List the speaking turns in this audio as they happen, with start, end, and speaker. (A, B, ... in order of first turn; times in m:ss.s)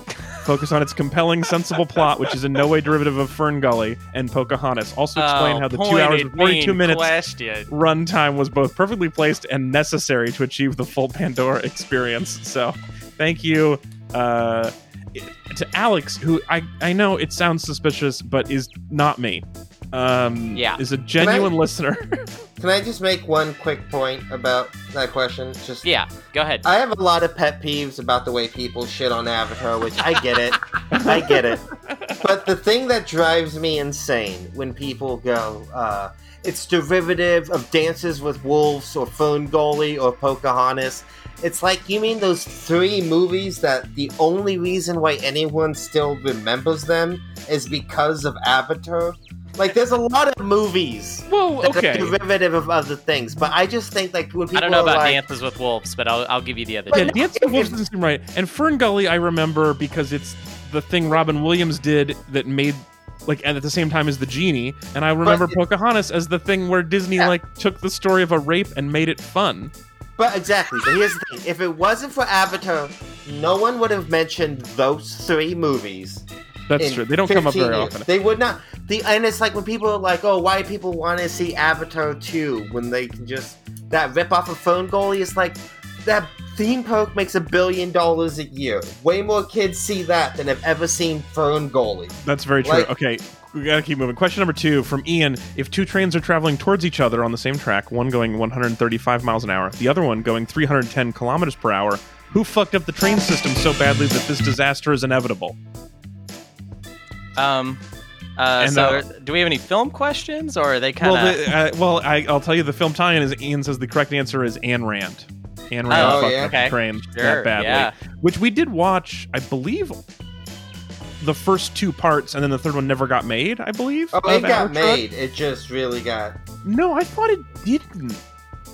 0:00.4-0:07.1 A
0:05.2-0:07.7 B
0:07.7-0:22.3 A
0:20.5-0:20.8 B
0:21.2-0:21.5 C
0:22.6-0:25.8 C
0:25.8-0:26.6 B
0:26.6-0:31.6 C
0:30.9-0:32.2 A
0:32.2-0:55.3 C
0:51.3-0:52.2 A
0:54.5-0:57.2 B
0:56.9-1:09.7 A
0:56.9-0:57.8 C
1:05.2-1:05.6 C
1:10.2-1:16.2 C
1:16.7-1:18.1 A
1:16.8-1:32.9 C
1:32.2-1:45.6 A
1:47.4-1:47.8 B
1:48.4-1:51.5 B
1:48.6-1:49.0 A
1:51.0-2:00.0 A
1:55.9-1:58.0 B
1:55.9-1:56.5 C
2:01.2-2:05.0 A
2:04.1-2:06.4 C
2:06.6-2:08.2 A